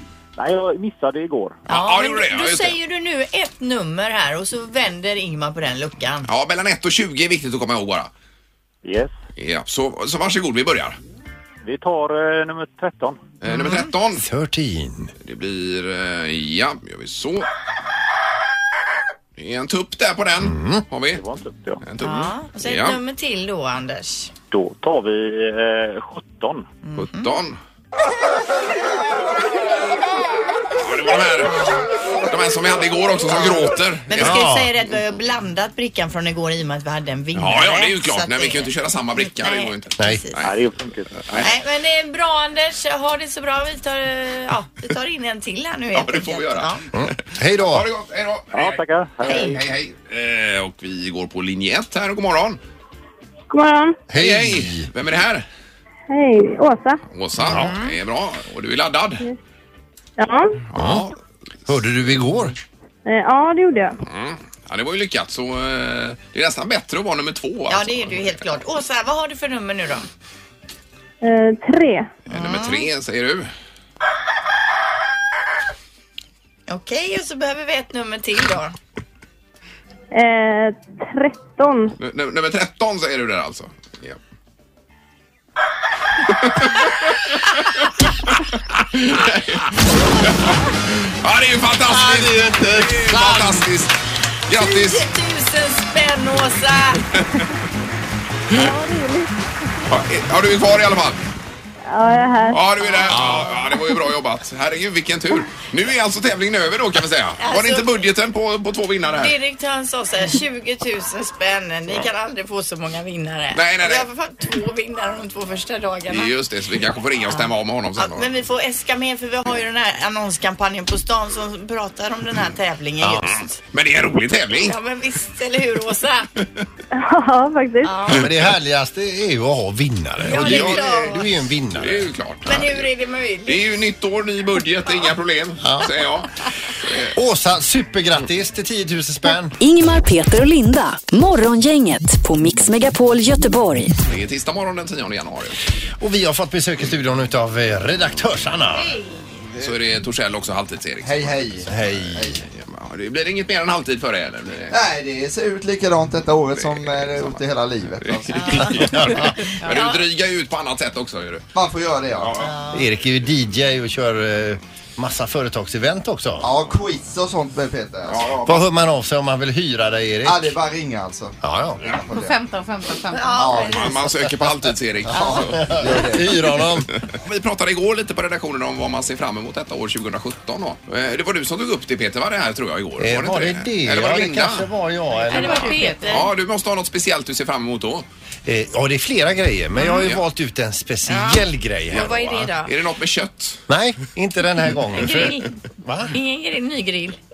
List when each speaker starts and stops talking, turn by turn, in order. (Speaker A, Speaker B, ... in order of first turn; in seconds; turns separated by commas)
Speaker A: 0.3-1.6, Speaker B: 1.7-2.8, Speaker C: 1.7-6.3, Speaker B: 6.3-8.1, Speaker A: 8.8-9.1, Speaker B: 9.4-11.0, Speaker A: 11.6-13.2, Speaker B: 13.4-14.2, Speaker C: 13.5-13.9, Speaker D: 14.1-15.1, Speaker B: 15.2-17.5, Speaker B: 19.4-21.2, Speaker D: 20.4-20.8, Speaker A: 21.1-21.8, Speaker B: 21.8-23.0, Speaker C: 22.0-24.3, Speaker A: 24.5-26.7, Speaker C: 26.8-27.4, Speaker B: 27.0-27.6, Speaker B: 30.8-34.4, Speaker C: 33.3-40.4, Speaker D: 34.2-34.7, Speaker B: 37.3-40.5, Speaker D: 40.0-40.2, Speaker A: 40.4-41.2, Speaker B: 41.1-41.5, Speaker C: 41.4-46.8, Speaker B: 45.9-52.6, Speaker D: 46.9-47.9, Speaker A: 48.5-49.6, Speaker C: 49.2-49.6, Speaker E: 53.5-54.0, Speaker D: 54.1-54.9, Speaker B: 54.1-55.5, Speaker E: 56.1-57.0, Speaker B: 57.1-59.2, Speaker C: 57.4-57.9, Speaker D: 57.5-57.7, Speaker E: 60.2-60.6, Speaker B: 60.7-61.1, Speaker D: 60.7-61.0, Speaker D: 61.7-62.5, Speaker E: 63.0-64.0, Speaker B: 64.0-68.3, Speaker C: 67.7-70.0, Speaker E: 71.2-72.1, Speaker B: 72.3-73.5, Speaker C: 72.3-72.8, Speaker C: 76.7-78.7, Speaker E: 80.1-81.9, Speaker B: 82.0-84.2, Speaker B: 86.3-95.0, Speaker D: 91.8-93.7, Speaker C: 94.5-97.0, Speaker B: 97.1-97.4, Speaker E: 98.5-99.3, Speaker B: 99.9-101.2, Speaker E: 101.9-102.6, Speaker B: 102.5-109.3, Speaker D: 103.1-103.6, Speaker C: 107.4-108.0, Speaker C: 109.1-116.3, Speaker B: 113.5-114.1, Speaker B: 116.1-118.3, Speaker C: 117.3-123.6, Speaker B: 123.2-124.8, Speaker C: 124.6-126.3, Speaker E: 126.9-127.9, Speaker C: 127.8-128.3, Speaker D: 128.1-132.1, Speaker B: 130.2-132.9, Speaker C: 130.3-131.2, Speaker C: 132.4-133.6, Speaker B: 133.4-136.3, Speaker D: 135.6-135.9, Speaker B: 136.8-137.1, Speaker D: 137.1-139.6, Speaker F: 139.6-144.0, Speaker B: 144.1-145.6, Speaker D: 146.0-148.9, Speaker G: 148.7-149.2, Speaker B: 149.6-154.8, Speaker H: 151.0-152.4, Speaker D: 151.7-152.4, Speaker H: 154.7-159.0, Speaker B: 156.5-157.4, Speaker B: 158.0-161.4, Speaker C: 158.5-158.8, Speaker D: 158.9-159.4, Speaker C: 159.6-160.0, Speaker H: 161.5-162.4, Speaker B: 162.2-162.5, Speaker C: 162.4-162.9, Speaker D: 162.7-166.5, Speaker H: 166.4-168.4, Speaker B: 168.1-168.7, Speaker D: 168.4-170.5, Speaker H: 170.2-172.4, Speaker D: 171.4-171.9, Speaker G: 172.1-173.7, Speaker C: 173.1-174.0, Speaker H: 173.3-174.0, Speaker B: 173.7-175.7, Speaker H: 175.1-176.5, Speaker C: 175.1-175.4, Speaker D: 175.4-176.9, Speaker B: 177.0-184.7, Speaker D: 183.0-185.9, Speaker G: 185.1-186.2, Speaker C: 185.3-186.3, Speaker B: 186.1-188.1, Speaker D: 188.4-192.2, Speaker C: 189.8-190.0, Speaker B: 189.9-190.2, Speaker C: 191.1-192.7, Speaker B: 191.9-193.6, Speaker D: 193.7-196.1, Speaker C: 194.9-195.5, Speaker C: 196.1-197.2